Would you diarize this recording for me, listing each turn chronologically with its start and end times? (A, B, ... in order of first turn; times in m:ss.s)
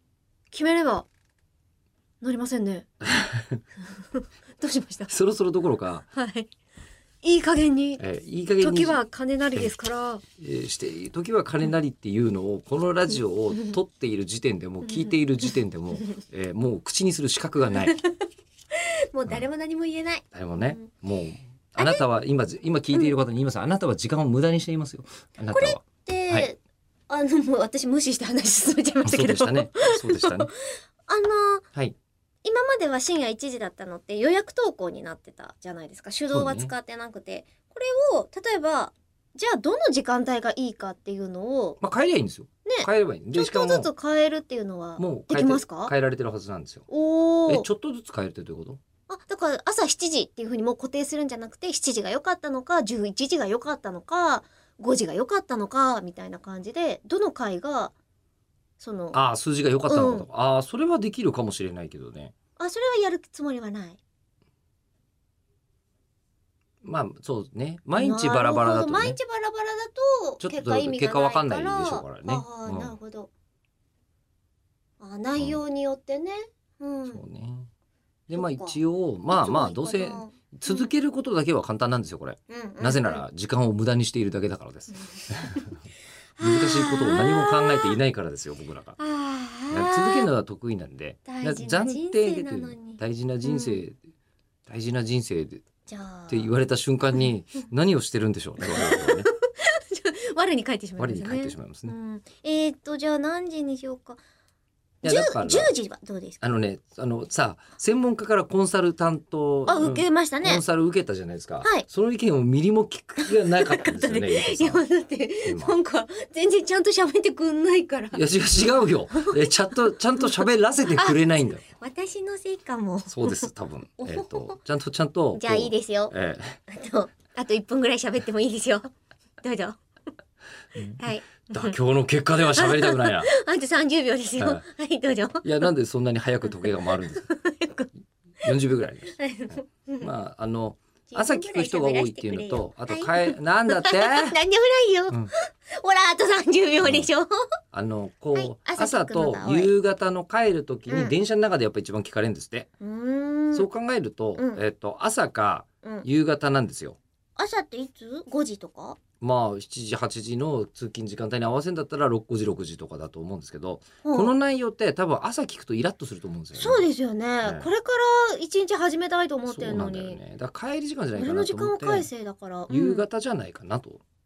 0:00.5-0:01.1 A
0:02.2-0:02.9 A
0:03.0-0:03.6 B
0:04.2-0:05.1 A
0:05.1-0:06.1 B
0:06.2-0:06.5 A
0:07.2-0:08.0 A
0:08.0-0:09.0 B
0:08.6-0:10.2 A
0:10.4-0:17.9 B
0:14.8-0:15.4 A
0:17.7-0:18.2 A
0:18.8-0:20.9 A
0:20.3-0:26.5 B
0:21.8-0:22.0 A
0:25.5-0:30.5 A
0:29.0-0:30.5 B
0:31.1-0:31.6 A
0:32.4-0:41.8 A
0:36.3-0:36.7 B
0:41.8-0:43.9 B
0:42.7-0:45.9 A
0:45.0-0:46.9 B
0:46.9-0:47.7 A
0:47.5-0:48.8 B
0:49.1-0:57.9 A
0:58.8-0:59.2 A
0:59.1-1:02.3 B
0:59.9-1:00.3 A
1:02.6-1:04.0 A
1:06.8-1:09.2 B
1:08.0-1:13.3 A
1:10.4-1:13.0 B
1:15.0-1:17.2 A
1:17.1-1:17.7 B
1:18.3-1:20.9 A
1:18.3-1:25.6 B
1:22.5-1:23.2 A
1:25.0-1:25.7 A
1:26.4-1:28.0 A
1:26.4-1:29.0 B
1:29.0-1:30.3 A
1:29.7-1:34.0 B
1:31.3-1:33.8 A
1:34.7-1:35.6 B
1:35.9-1:36.5 A
1:36.3-1:39.3 B
1:38.6-1:44.2 A
1:41.0-1:42.0 B
1:45.0-1:45.7 B
1:45.0-1:46.4 A
1:46.4-1:54.8 B
1:49.7-1:50.6 A
1:53.2-1:58.2 A
1:55.4-1:55.8 B
1:58.1-2:01.6 B
1:59.1-1:59.5 A
2:00.9-2:04.6 A
2:03.1-2:06.6 B
2:05.3-2:06.1 A
2:06.7-2:08.9 A
2:09.4-2:09.8 A
2:10.8-2:13.3 B
2:10.8-2:11.8 A
2:12.5-2:15.7 A
2:14.4-2:14.6 B
2:15.4-2:17.3 B
2:16.4-2:17.9 A
2:18.4-2:24.4 B
2:19.1-2:20.1 A
2:21.1-2:27.3 A
2:26.8-2:27.1 B
2:27.7-2:32.7 B
2:28.3-2:29.7 A
2:30.9-2:31.2 A
2:32.8-2:33.7 A
2:33.5-2:37.0 B
2:34.4-2:34.6 A
2:37.4-2:39.0 A
2:39.2-2:46.9 B
2:44.0-2:44.3 A
2:46.6-2:50.2 A
2:47.4-2:47.7 B
2:49.5-2:52.1 B
2:51.2-2:53.0 A
2:52.7-2:54.0 B